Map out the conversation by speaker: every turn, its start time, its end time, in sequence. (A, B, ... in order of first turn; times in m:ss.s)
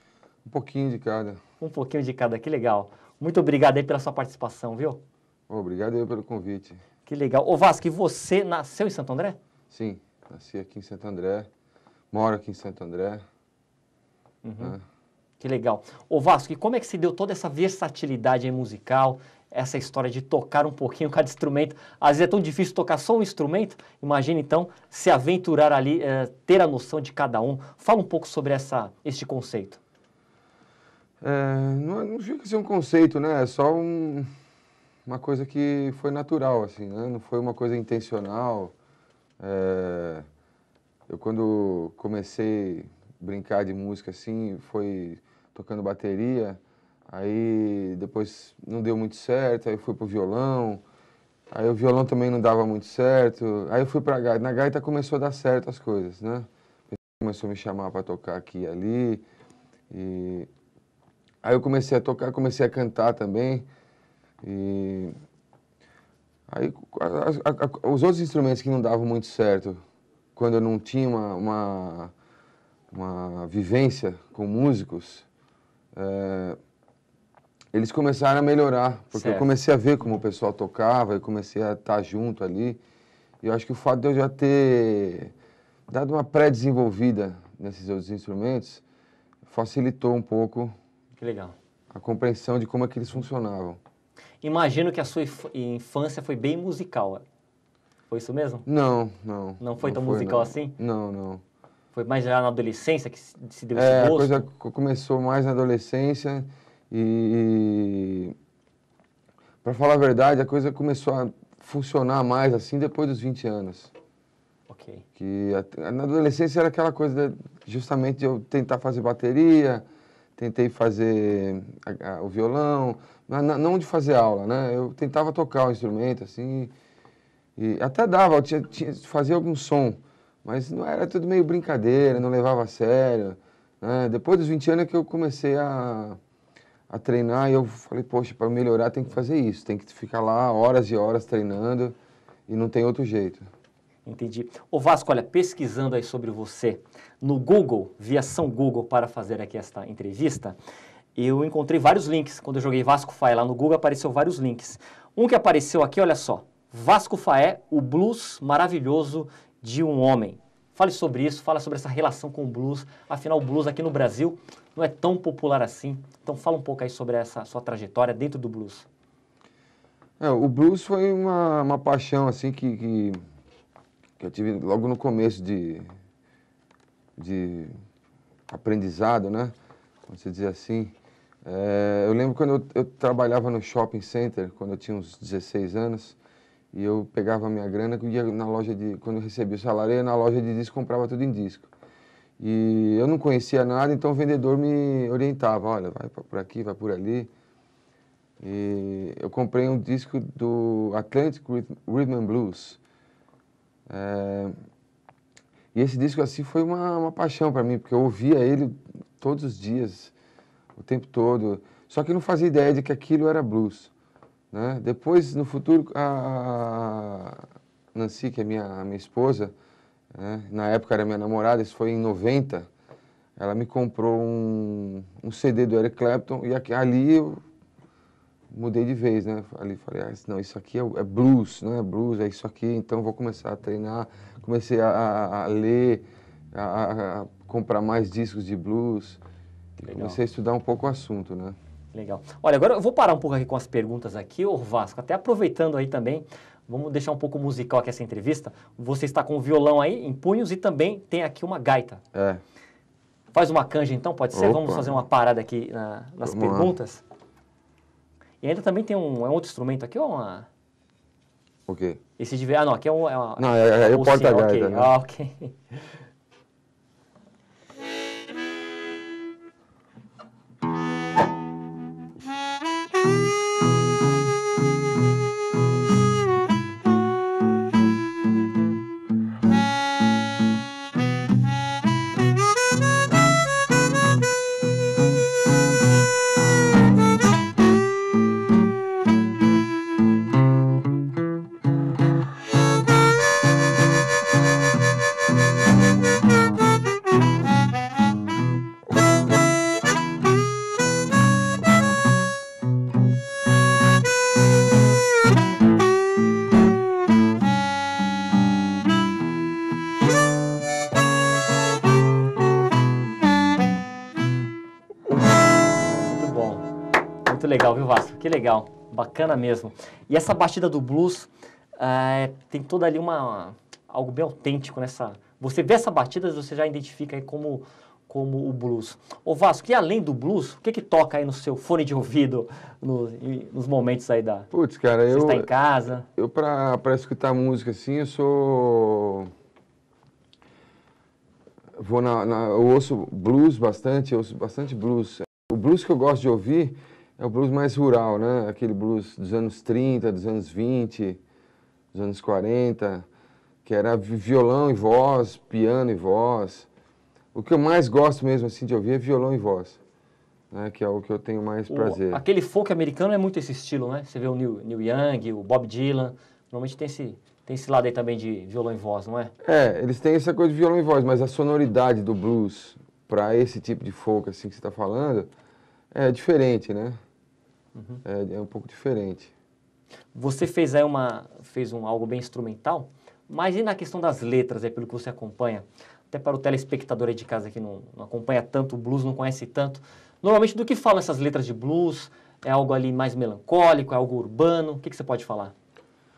0:00.4-0:01.4 A
0:01.6-0:05.0 B
0:05.5-0:06.8 A
0:07.0-0:09.4 B
0:09.7-0:11.5 A
0:12.1-0:13.2 A
0:14.4-0:14.8 B
0:15.4-0:29.8 B
0:31.2-0:34.3 A
0:35.0-0:38.7 A
0:39.4-0:40.2 A
0:41.1-0:50.8 A
0:51.5-0:59.2 A
0:59.9-1:00.5 A
1:01.4-1:03.7 A
1:04.4-1:05.1 A
1:06.5-1:09.8 A
1:10.4-1:12.1 A
1:12.9-1:15.2 A
1:15.9-1:16.6 A
1:17.7-1:22.8 A
1:19.1-1:19.5 B
1:23.4-1:25.3 A
1:25.9-1:28.8 A
1:29.4-1:30.7 A
1:31.2-1:31.6 B
1:31.9-1:33.8 A
1:34.4-1:37.2 B
1:38.1-1:38.6 B
1:38.6-1:41.4 A
1:39.6-1:40.8 B
1:41.9-1:44.4 B
1:43.7-1:48.3 A
1:49.6-1:53.9 A
1:54.7-1:55.0 B
1:55.2-1:59.8 A
2:00.4-2:06.7 A
2:07.6-2:16.2 A
2:16.9-2:22.0 A
2:22.5-2:23.5 A
2:24.0-2:30.6 B
2:31.1-2:48.8 B
2:50.2-2:53.2 A
2:54.2-2:55.9 A
2:57.2-2:57.7 A
2:58.5-2:59.5 A
3:00.1-3:00.9 A
3:01.4-3:06.2 A
3:06.7-3:11.7 A
3:12.4-3:17.3 A
3:18.4-3:22.8 A
3:23.9-3:24.6 A
3:25.7-3:30.1 A
3:30.8-3:33.9 A
3:34.5-3:39.5 A
3:40.1-3:42.7 A
3:43.4-3:47.4 A
3:48.5-3:59.2 A
3:59.8-4:01.6 A
3:59.9-4:00.2 B
4:01.9-4:12.0 B
4:12.1-4:12.4 A
4:13.3-4:17.0 B
4:14.3-4:14.9 A
4:16.2-4:16.7 A
4:18.4-4:20.5 B
4:21.7-4:22.0 A
4:22.2-4:25.8 B
4:23.4-4:24.9 A
5:15.8-5:16.6 B
5:17.2-5:34.5 B
5:34.5-5:35.5 A
5:35.1-5:36.0 B
5:36.1-5:39.3 A
5:41.8-5:51.2 A
5:51.9-5:53.1 A
5:53.6-5:56.7 A
5:57.3-5:59.8 A
6:00.5-6:02.2 A
6:01.7-6:09.3 B
6:09.4-6:15.3 A
6:15.9-6:17.0 A
6:17.7-6:18.0 B
6:18.0-6:19.3 A
6:20.1-6:35.5 B